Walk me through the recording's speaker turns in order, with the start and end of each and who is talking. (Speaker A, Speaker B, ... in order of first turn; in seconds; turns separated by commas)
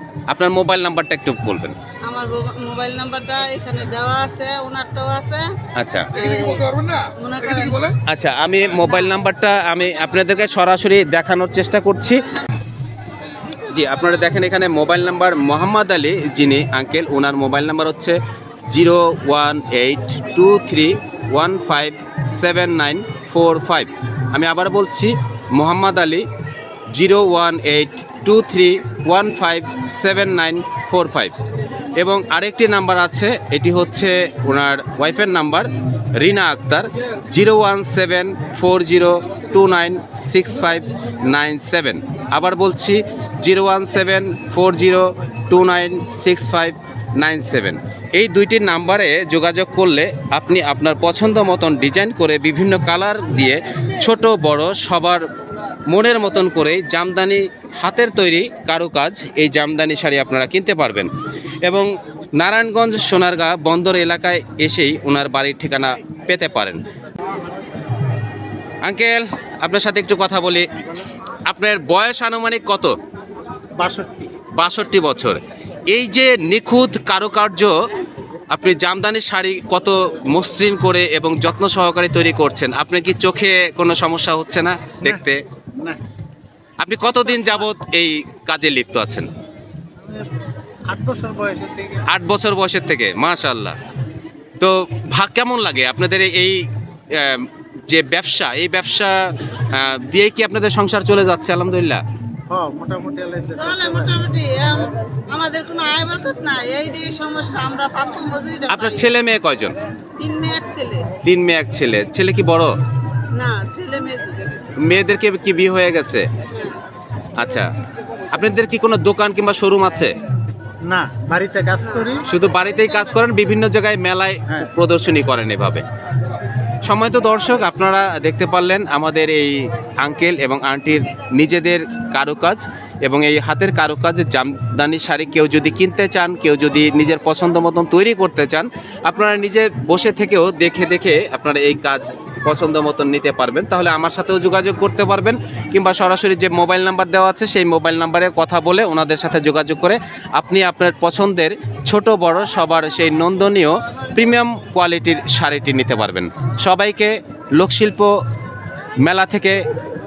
Speaker A: 0.3-1.8, Speaker B: 2.1-5.5, Speaker A: 5.8-6.1, Speaker B: 6.1-8.0, Speaker A: 8.1-12.3, Speaker A: 13.7-18.2, Speaker A: 18.7-26.3, Speaker A: 26.9-31.4, Speaker A: 32.0-55.2, Speaker A: 55.9-61.1, Speaker A: 61.6-66.8, Speaker A: 68.8-70.7, Speaker A: 71.5-73.0, Speaker C: 73.8-74.3, Speaker A: 74.5-77.7, Speaker A: 78.5-85.4, Speaker A: 86.8-89.3, Speaker C: 90.0-90.3, Speaker C: 90.9-92.1, Speaker A: 92.1-93.8, Speaker A: 94.6-102.0, Speaker C: 102.5-104.1, Speaker B: 103.5-109.1, Speaker A: 108.7-109.8, Speaker B: 110.2-111.1, Speaker A: 111.2-112.8, Speaker B: 113.3-114.6, Speaker A: 114.8-116.3, Speaker B: 116.5-116.8, Speaker A: 117.3-117.7, Speaker A: 118.3-120.2, Speaker C: 120.8-122.3, Speaker B: 121.8-123.6, Speaker A: 122.3-125.8, Speaker A: 126.8-158.2, Speaker A: 159.0-159.6